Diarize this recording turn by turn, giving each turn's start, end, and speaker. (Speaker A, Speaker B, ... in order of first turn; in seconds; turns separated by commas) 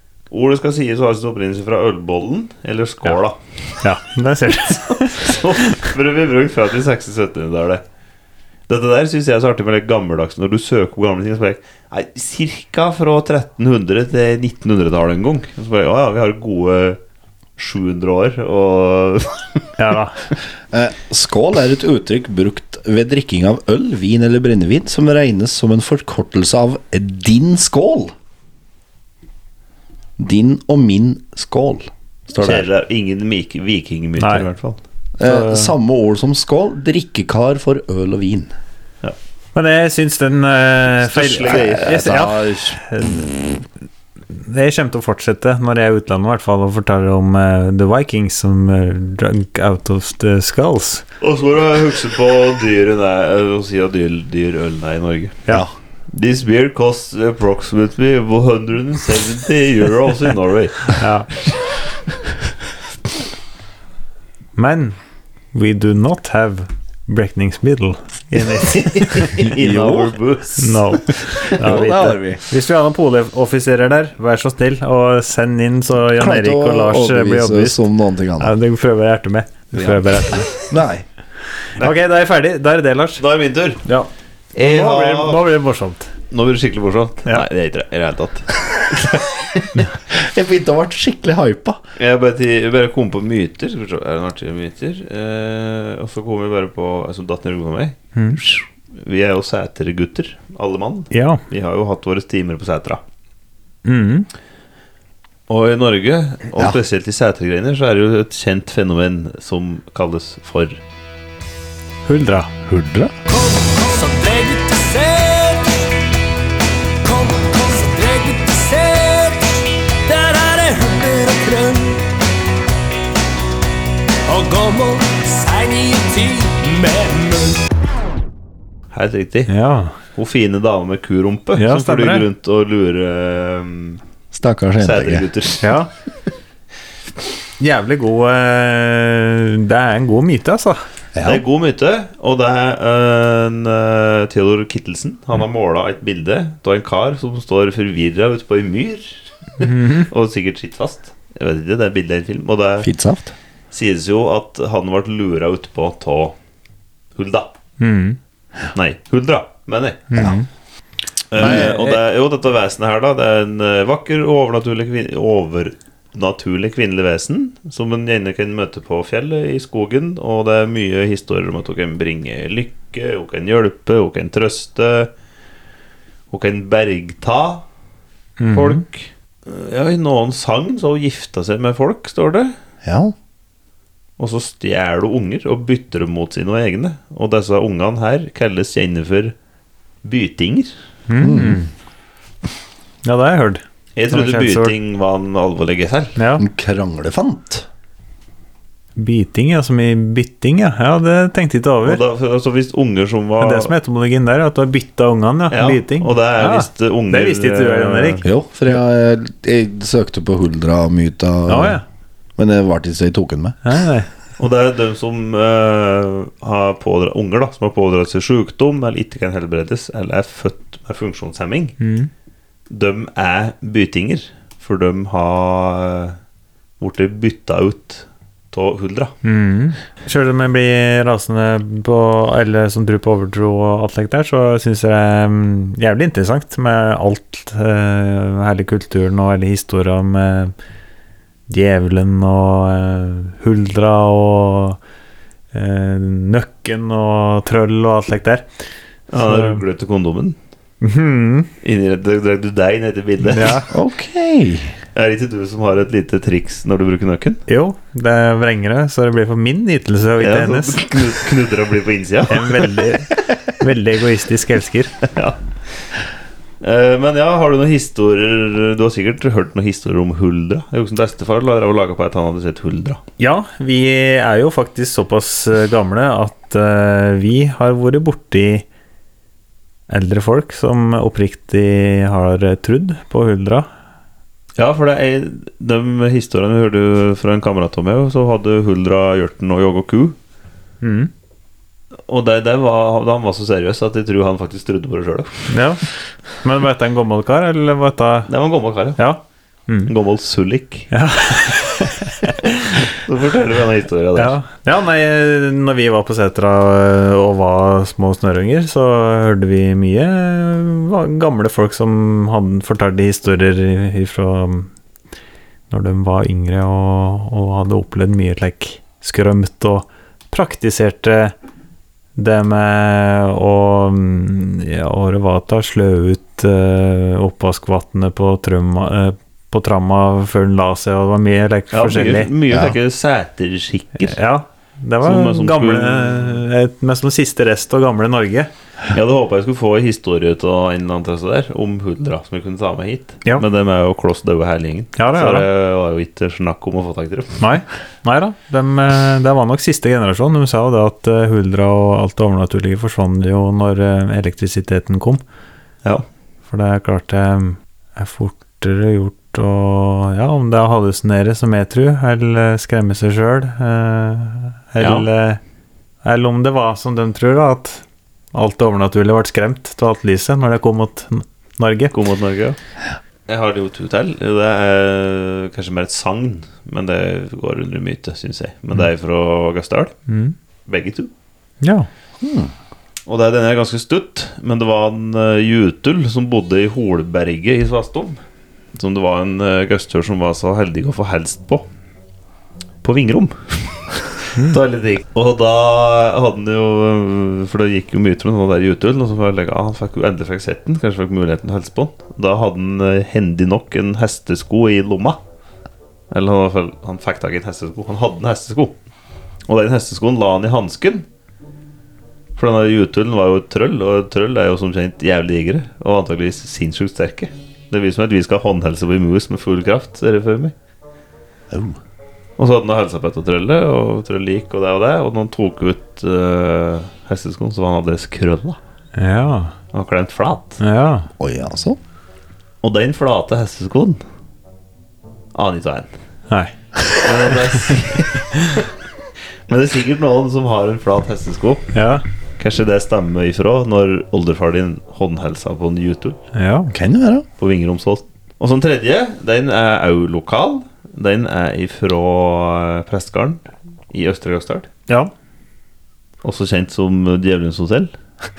Speaker A: 0.3-3.8, Speaker B: 3.8-5.7, Speaker A: 4.9-7.8, Speaker A: 8.7-17.0, Speaker A: 17.6-19.7, Speaker B: 19.8-20.2, Speaker C: 20.7-28.1, Speaker C: 30.2-32.7, Speaker A: 32.4-34.8, Speaker B: 34.2-34.5, Speaker C: 35.2-38.5, Speaker B: 35.2-35.7, Speaker B: 39.5-43.6, Speaker A: 41.0-42.1, Speaker C: 41.5-42.8, Speaker B: 44.3-51.0, Speaker A: 51.2-55.5, Speaker A: 56.1-61.8, Speaker B: 60.9-61.3, Speaker B: 64.5-65.0, Speaker B: 65.5-69.3, Speaker A: 68.6-71.5, Speaker C: 69.5-70.2, Speaker B: 70.6-77.8, Speaker C: 71.5-72.4, Speaker C: 76.2-78.5, Speaker B: 78.4-80.6, Speaker C: 79.7-81.0, Speaker B: 81.8-83.2, Speaker A: 83.2-83.8, Speaker B: 83.8-86.1, Speaker A: 84.5-85.5, Speaker A: 86.3-89.7, Speaker C: 90.1-91.8, Speaker A: 92.0-103.0, Speaker B: 98.1-98.4, Speaker B: 101.1-101.4, Speaker B: 103.8-104.3, Speaker A: 105.5-110.8, Speaker B: 112.0-112.6, Speaker C: 112.7-113.1, Speaker D: 113.2-115.8, Speaker D: 117.0-122.0, Speaker D: 124.3-127.6, Speaker A: 128.9-129.5, Speaker B: 129.5-129.9, Speaker A: 130.1-134.0, Speaker B: 131.6-132.2, Speaker C: 134.3-135.3, Speaker A: 134.8-135.7, Speaker B: 135.6-135.9, Speaker B: 137.6-140.8, Speaker C: 141.1-141.4, Speaker A: 141.2-152.9, Speaker B: 149.6-150.1, Speaker C: 152.8-153.3, Speaker A: 153.7-156.3, Speaker A: 157.1-157.5, Speaker B: 157.8-158.2, Speaker A: 158.7-160.1, Speaker B: 160.1-160.4, Speaker A: 161.3-175.1, Speaker B: 161.4-162.0, Speaker A: 176.3-177.6, Speaker B: 178.4-178.8, Speaker A: 178.5-182.5, Speaker C: 182.8-183.1, Speaker A: 184.2-189.3, Speaker A: 190.0-190.7, Speaker B: 191.1-191.7, Speaker C: 191.2-191.6, Speaker B: 193.0-194.7, Speaker A: 193.9-196.2, Speaker B: 196.2-196.4, Speaker C: 196.4-197.7, Speaker B: 198.9-202.0, Speaker A: 201.8-203.7, Speaker B: 203.4-208.2, Speaker A: 205.5-208.2, Speaker C: 208.2-211.8, Speaker B: 211.5-211.8, Speaker C: 212.4-213.6, Speaker B: 213.6-214.1, Speaker A: 214.4-221.8, Speaker B: 221.8-222.1, Speaker A: 222.7-226.2, Speaker A: 226.8-229.1, Speaker B: 229.2-240.5, Speaker B: 241.5-244.8, Speaker B: 245.5-248.4, Speaker A: 249.1-250.3, Speaker B: 249.2-249.6, Speaker B: 250.8-251.5, Speaker A: 251.6-253.6, Speaker B: 253.2-253.7, Speaker C: 253.7-254.8, Speaker A: 254.9-257.4, Speaker B: 257.5-261.1, Speaker A: 260.2-263.3, Speaker B: 262.3-264.9, Speaker A: 265.0-265.4, Speaker A: 266.6-273.0, Speaker B: 273.2-278.6, Speaker B: 279.9-283.7, Speaker A: 284.6-290.1, Speaker B: 290.8-291.1, Speaker A: 292.1-295.5, Speaker B: 295.5-295.9, Speaker B: 296.4-298.3, Speaker A: 298.3-299.0, Speaker B: 299.0-299.9, Speaker A: 299.9-300.9, Speaker B: 300.9-302.8, Speaker A: 302.9-304.4, Speaker B: 304.1-314.7, Speaker B: 315.7-321.3, Speaker B: 322.1-332.3, Speaker A: 331.7-334.2, Speaker C: 332.5-332.7, Speaker B: 334.0-338.5, Speaker A: 335.0-336.4, Speaker A: 338.9-347.4, Speaker B: 344.9-345.4, Speaker B: 347.4-355.2, Speaker B: 356.5-365.4, Speaker A: 364.8-365.1, Speaker B: 366.0-371.9, Speaker A: 371.9-372.6, Speaker A: 373.3-379.9, Speaker B: 380.1-380.3, Speaker A: 380.7-381.1, Speaker B: 381.6-381.9, Speaker C: 382.2-382.5, Speaker A: 383.1-388.2, Speaker A: 388.7-391.6, Speaker A: 392.8-405.2, Speaker A: 406.1-408.7, Speaker A: 409.5-411.1, Speaker A: 412.4-420.5, Speaker C: 421.5-421.8, Speaker A: 422.4-428.6, Speaker B: 428.9-429.5, Speaker A: 429.7-430.6, Speaker B: 430.6-431.1, Speaker C: 431.2-431.8, Speaker A: 432.6-434.0, Speaker A: 435.3-435.9, Speaker B: 436.3-437.1, Speaker A: 437.0-438.7, Speaker A: 439.5-441.7, Speaker B: 441.7-442.0, Speaker A: 442.4-446.2, Speaker B: 446.3-446.7, Speaker C: 446.7-447.2, Speaker A: 447.4-454.7, Speaker A: 456.2-457.9